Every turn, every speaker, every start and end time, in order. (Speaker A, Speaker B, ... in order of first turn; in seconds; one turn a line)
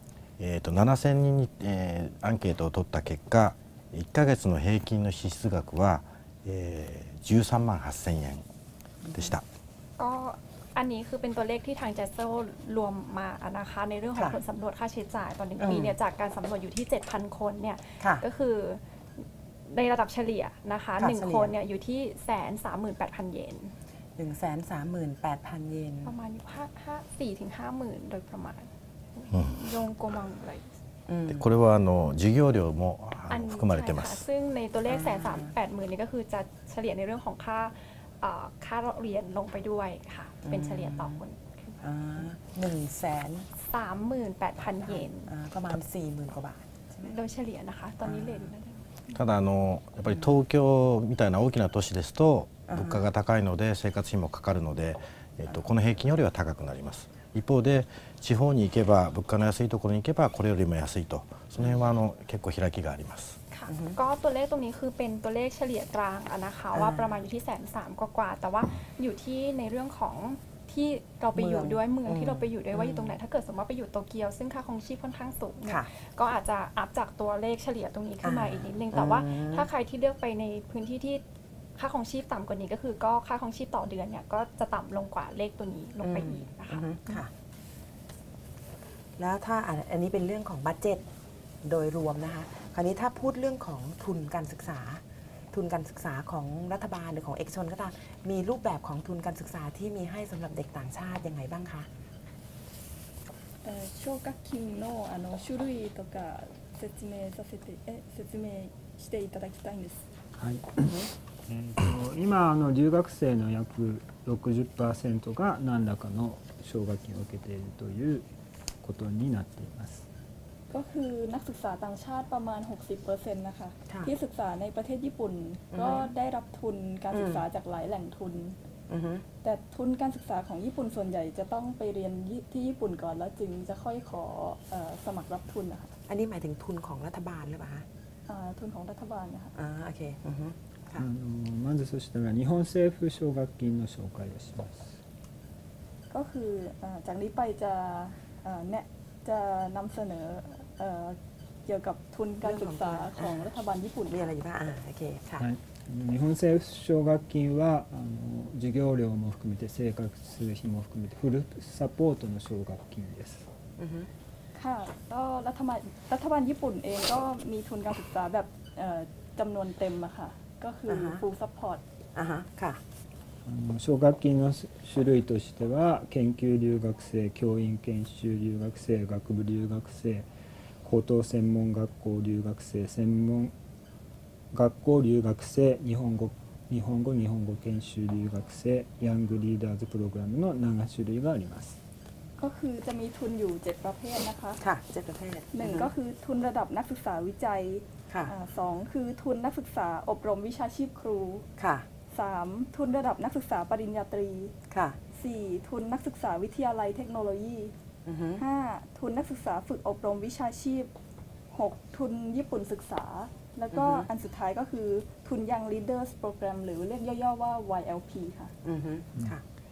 Speaker A: 0.4-8.4
Speaker B: 9.0-9.3
Speaker A: 9.1-9.4
Speaker C: 10.0-23.7
Speaker B: 15.6-15.9
Speaker B: 21.0-21.5
Speaker B: 24.2-26.1
Speaker C: 26.0-30.7
Speaker B: 31.1-31.4
Speaker A: 31.2-34.2
Speaker C: 33.3-41.8
Speaker B: 34.9-35.5
Speaker B: 40.4-41.2
Speaker B: 41.8-43.5
Speaker C: 43.5-45.3
Speaker B: 44.6-47.1
Speaker C: 47.0-49.2
Speaker B: 48.0-48.5
Speaker A: 49.1-63.4
Speaker B: 52.7-53.0
Speaker C: 63.5-81.2
Speaker B: 63.7-64.0
Speaker B: 66.7-67.2
Speaker B: 71.3-73.2
Speaker B: 78.2-79.7
Speaker C: 81.8-87.2
Speaker B: 86.0-87.3
Speaker B: 89.2-91.0
Speaker B: 91.6-101.9
Speaker D: 103.6-110.1
Speaker E: 110.4-118.3
Speaker B: 110.8-111.1
Speaker E: 118.8-120.0
Speaker D: 120.7-128.6
Speaker B: 125.7-126.1
Speaker B: 127.1-127.4
Speaker B: 128.9-129.2
Speaker D: 129.4-135.9
Speaker B: 136.1-137.8
Speaker D: 138.3-139.5
Speaker B: 139.5-141.0
Speaker E: 140.9-144.9
Speaker D: 146.1-154.3
Speaker B: 152.4-153.4
Speaker B: 154.1-155.4
Speaker E: 155.4-163.4
Speaker B: 163.8-164.1
Speaker D: 164.5-171.8
Speaker B: 170.9-171.2
Speaker B: 172.1-172.8
Speaker E: 173.4-180.3
Speaker E: 180.8-183.5
Speaker E: 184.5-191.8
Speaker D: 192.4-194.6
Speaker B: 194.6-195.9
Speaker D: 195.5-201.4
Speaker B: 201.6-201.8
Speaker D: 202.1-204.5
Speaker B: 204.7-205.0
Speaker D: 205.1-207.7
Speaker B: 208.0-208.4
Speaker D: 208.4-210.9
Speaker D: 211.5-218.5
Speaker B: 213.7-214.1
Speaker B: 218.6-219.4